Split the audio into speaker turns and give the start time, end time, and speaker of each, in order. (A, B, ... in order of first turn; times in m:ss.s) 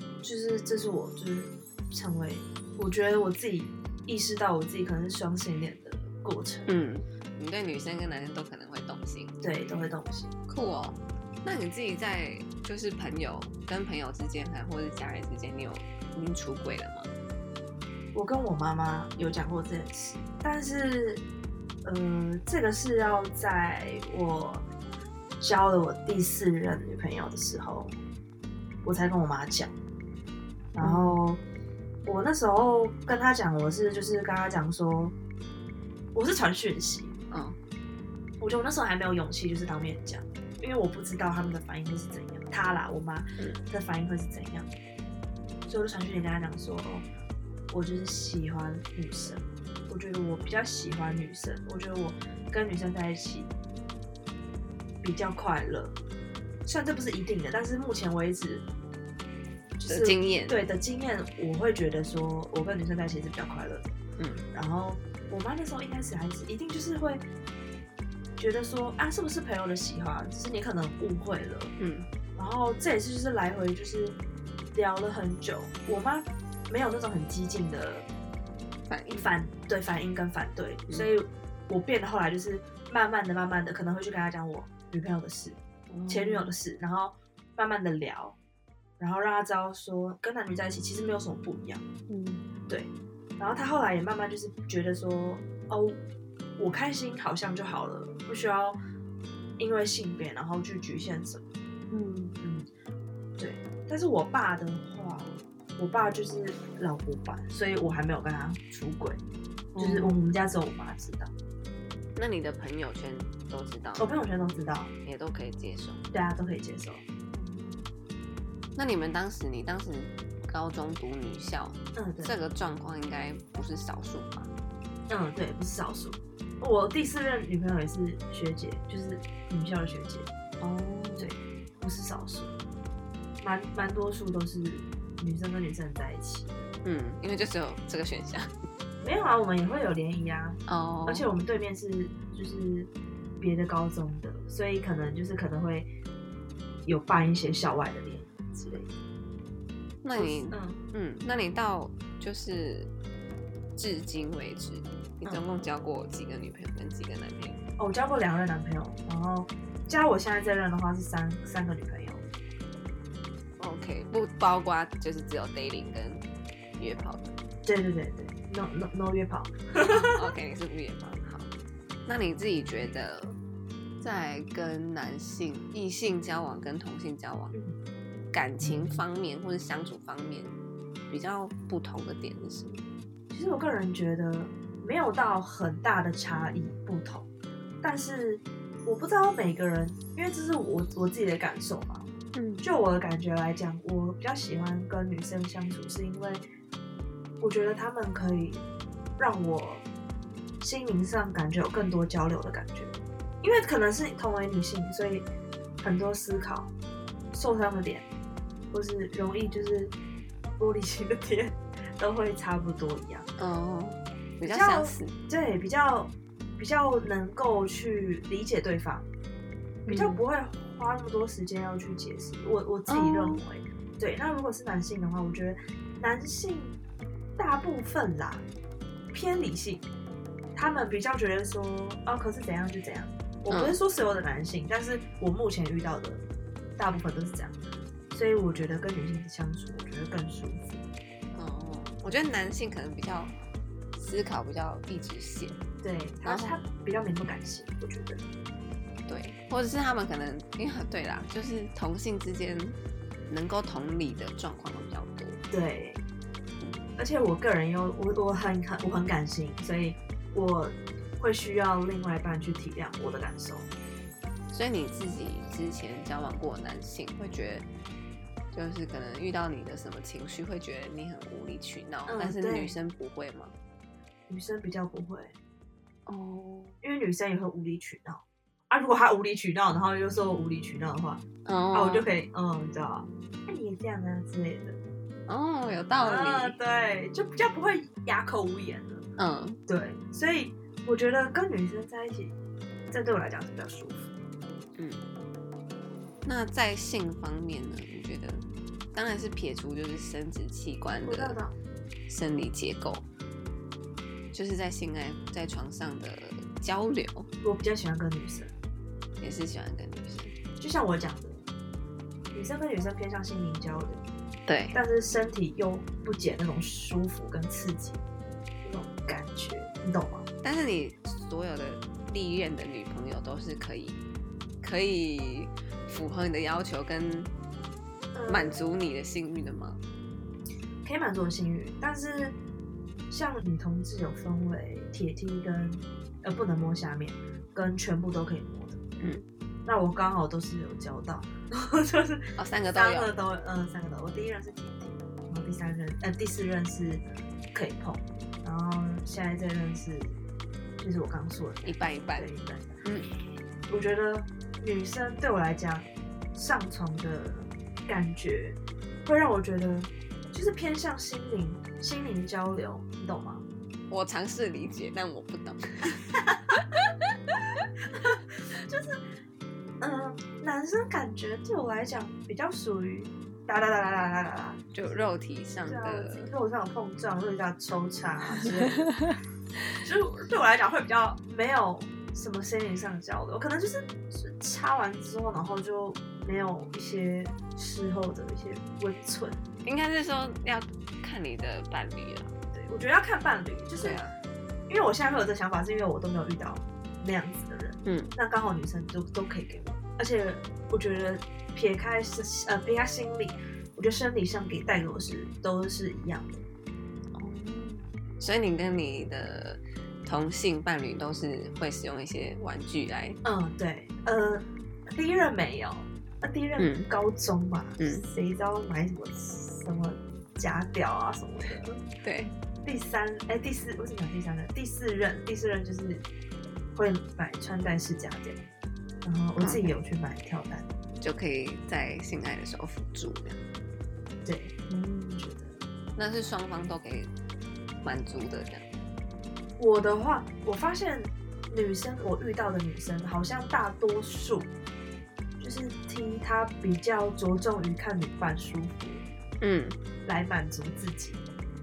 0:00.2-0:06.7 A
0:06.7-0:09.7 B
0:09.4-0:10.3 A
0:10.5-0:17.1 B
0:18.1-0:21.2 A
0:21.8-0:24.6 A
0:25.4-0:27.9 A
0:28.8-0:29.7 A
0:30.7-0:31.4 A
0:30.8-0:31.2 B
0:32.0-0:35.1 A
0:36.1-0:37.1 A
0:37.3-0:37.6 B
0:38.4-0:44.7 A
0:45.6-0:47.0 A
0:47.7-0:53.5 A
0:55.0-0:55.9 A
0:56.6-0:58.6 A
0:59.8-1:03.9 A
0:59.9-1:00.6 B
1:04.2-1:04.4 B
1:04.5-1:07.2 A
1:08.4-1:11.7 A
1:11.8-1:12.1 B
1:12.4-1:14.2 A
1:14.7-1:18.1 A
1:18.9-1:19.3 B
1:19.1-1:28.4 A
1:25.9-1:26.5 B
1:29.0-1:31.8 A
1:32.1-1:32.5 B
1:32.7-1:36.0 A
1:36.6-1:38.8 A
1:39.6-1:41.5 A
1:41.9-1:42.4 B
1:42.4-1:42.7 A
1:43.4-1:49.2 A
1:49.7-1:50.2 B
1:49.8-1:51.3 A
1:52.1-1:54.2 B
1:54.0-1:54.9 A
1:55.0-1:56.0 B
1:56.1-1:57.0 A
1:57.3-1:57.9 B
1:58.8-2:04.5 B
2:01.9-2:02.3 A
2:05.1-2:10.3 A
2:10.6-2:11.3 B
2:11.2-2:12.5 A
2:13.4-2:16.7 A
2:16.8-2:18.5 B
2:19.0-2:25.9 A
2:20.7-2:21.3 B
2:26.8-2:28.9 A
2:30.0-2:32.9 B
2:30.1-2:30.8 A
2:33.8-2:37.6 B
2:37.8-2:42.2 A
2:43.6-2:46.2 B
2:46.8-2:47.3 B
2:47.6-2:50.2 A
2:49.8-2:51.5 B
2:52.0-2:53.4 B
2:54.0-2:57.5 B
2:58.3-3:00.6 B
2:58.6-2:59.0 A
3:01.1-3:02.8 B
3:03.3-3:07.3 A
3:06.3-3:06.7 B
3:07.8-3:12.1 A
3:12.3-3:12.6 B
3:12.6-3:16.4 A
3:17.4-3:18.6 A
3:19.2-3:19.8 A
3:20.6-3:25.2 A
3:25.8-3:26.7 A
3:27.3-3:28.0 A
3:28.7-3:29.9 A
3:30.6-3:33.3 A
3:33.4-3:35.1 B
3:34.4-3:39.1 A
3:39.8-3:40.2 B
3:39.9-3:46.8 A
3:42.9-3:43.4 B
3:47.4-3:48.4 A
3:49.1-3:49.9 A
3:50.5-3:56.2 A
3:53.5-3:53.8 B
3:56.8-3:57.5 A
3:58.1-4:00.8 A
4:01.3-4:03.3 B
4:04.0-4:05.6 B
4:05.8-4:08.2 A
4:06.2-4:06.6 B
4:09.1-4:12.8 B
4:13.3-4:15.4 B
4:15.5-4:16.0 A
4:17.0-4:23.7 A
4:24.5-4:27.7 B
4:28.5-4:33.5 B
4:32.1-4:32.7 A
4:34.3-4:35.3 A
4:36.1-4:36.8 B
4:36.8-4:44.8 A
4:41.4-4:42.1 B
4:45.3-4:46.6 B
4:46.0-4:49.0 A
4:49.2-4:49.6 B
4:49.7-4:52.3 A
4:52.9-4:54.1 A
4:54.8-4:55.0 B
4:56.2-5:01.4 B
5:01.0-5:01.5 A
5:02.1-5:03.0 B
5:04.3-5:07.3 B
5:07.4-5:08.5 A
5:09.2-5:10.3 B
5:10.6-5:11.4 A
5:12.3-5:14.0 A
5:14.5-5:14.8 B
5:14.7-5:18.0 A
5:18.6-5:20.3 A
5:20.4-5:24.0 B
5:24.6-5:27.3 B
5:28.1-5:28.6 A
5:28.3-5:29.8 B
5:30.8-5:32.4 A
5:33.1-5:38.8 A
5:39.0-5:39.2 B
5:39.6-5:50.2 A
5:42.4-5:43.1 B
5:50.8-5:52.7 A
5:51.6-5:52.3 B
5:52.8-5:53.1 B
5:53.7-6:03.4 A
6:03.9-6:07.4 B
6:08.0-6:09.0 A
6:09.8-6:15.1 A
6:14.7-6:16.3 B
6:15.7-6:18.9 A
6:18.4-6:19.2 B
6:19.8-6:29.4 A
6:29.6-6:32.3 B
6:32.5-6:34.0 A
6:33.8-6:34.1 B
6:34.7-6:46.4 A
6:37.8-6:38.1 B
6:47.2-6:53.2 B
6:53.2-7:01.8 A
6:56.6-6:56.9 B
6:57.8-6:58.0 B
7:02.0-7:02.3 B
7:02.6-7:06.0 A
7:06.7-7:08.4 A
7:09.0-7:10.7 A
7:09.4-7:09.8 B
7:11.0-7:13.4 B
7:14.2-7:15.6 A
7:16.0-7:17.1 B
7:17.8-7:18.6 B
7:19.6-7:24.5 A
7:25.4-7:29.0 A
7:29.4-7:29.8 B
7:30.0-7:31.2 A